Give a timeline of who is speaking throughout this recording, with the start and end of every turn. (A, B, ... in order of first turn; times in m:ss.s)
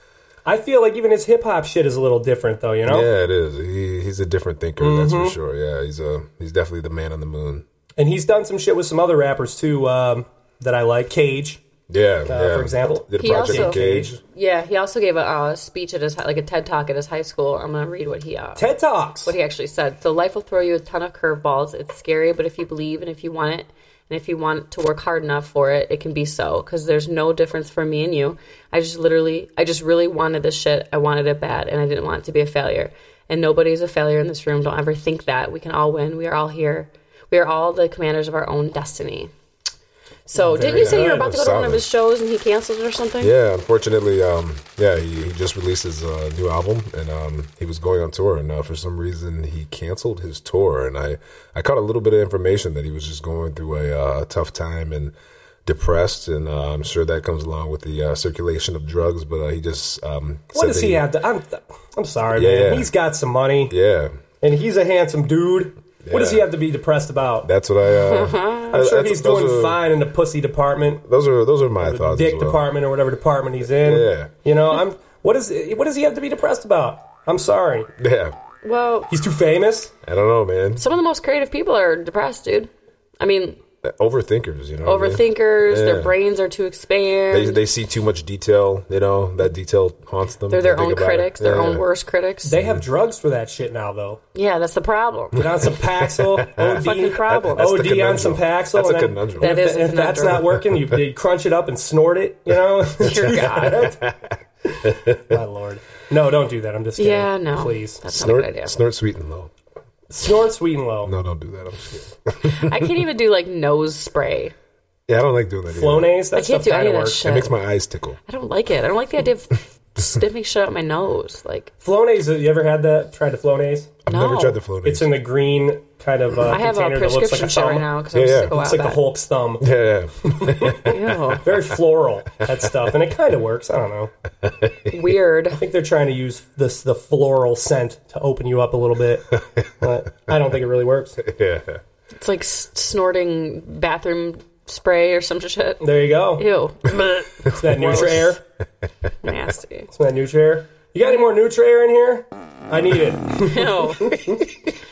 0:00.4-0:03.1 A
0:02.8-0:07.6 B
0:04.8-0:05.4 A
0:08.0-0:11.6 A
0:11.9-0:14.2 B
0:12.3-0:14.2 A
0:13.2-0:18.7 C
0:18.6-0:19.3 A
0:19.2-0:39.3 C
0:40.3-0:43.3 C
0:40.3-0:41.2 A
0:40.7-0:41.9 B
0:43.2-0:55.1 B
0:55.6-1:01.0 B
1:00.5-1:03.7 A
1:02.3-1:02.9 B
1:03.7-1:04.2 B
1:04.4-1:07.5 A
1:06.0-1:06.5 B
1:07.4-1:09.8 B
1:07.9-1:08.7 C
1:08.7-1:11.0 A
1:11.0-1:12.7 B
1:11.8-1:17.9 A
1:13.8-1:14.3 B
1:18.0-1:18.4 B
1:18.6-1:19.1 C
1:19.1-1:19.9 A
1:20.0-1:20.8 B
1:20.8-1:23.6 C
1:23.8-1:26.1 B
1:24.8-1:27.6 C
1:27.3-1:31.8 B
1:30.5-1:32.5 C
1:32.4-1:34.2 A
1:32.6-1:32.8 B
1:34.3-1:35.4 C
1:35.4-1:44.0 A
1:36.0-1:39.5 B
1:36.8-1:37.7 C
1:39.4-1:40.6 C
1:43.0-1:44.3 B
1:43.0-1:43.9 C
1:44.7-1:48.0 A
1:44.8-1:45.3 B
1:47.0-1:48.8 C
1:48.1-1:49.5 B
1:50.1-1:51.1 A
1:51.0-1:52.9 B
1:52.5-1:54.5 C
1:55.1-1:56.1 B
1:55.7-1:57.2 A
1:56.4-1:57.5 C
1:57.2-1:58.2 B
1:58.3-2:01.7 C
2:01.8-2:04.0 A
2:04.0-2:05.2 B
2:04.1-2:04.6 C
2:04.8-2:07.9 A
2:06.5-2:09.0 C
2:08.1-2:08.5 B
2:08.5-2:09.7 A
2:09.6-2:11.4 B
2:10.4-2:10.8 A
2:10.9-2:11.5 C
2:11.4-2:14.1 A
2:14.4-2:14.9 B
2:14.9-2:15.6 C
2:15.5-2:21.2 A
2:21.2-2:21.8 B
2:22.2-2:28.3 C
2:25.8-2:26.4 A
2:27.5-2:28.4 A
2:29.2-2:29.9 C
2:29.9-2:34.4 A
2:33.4-2:34.4 C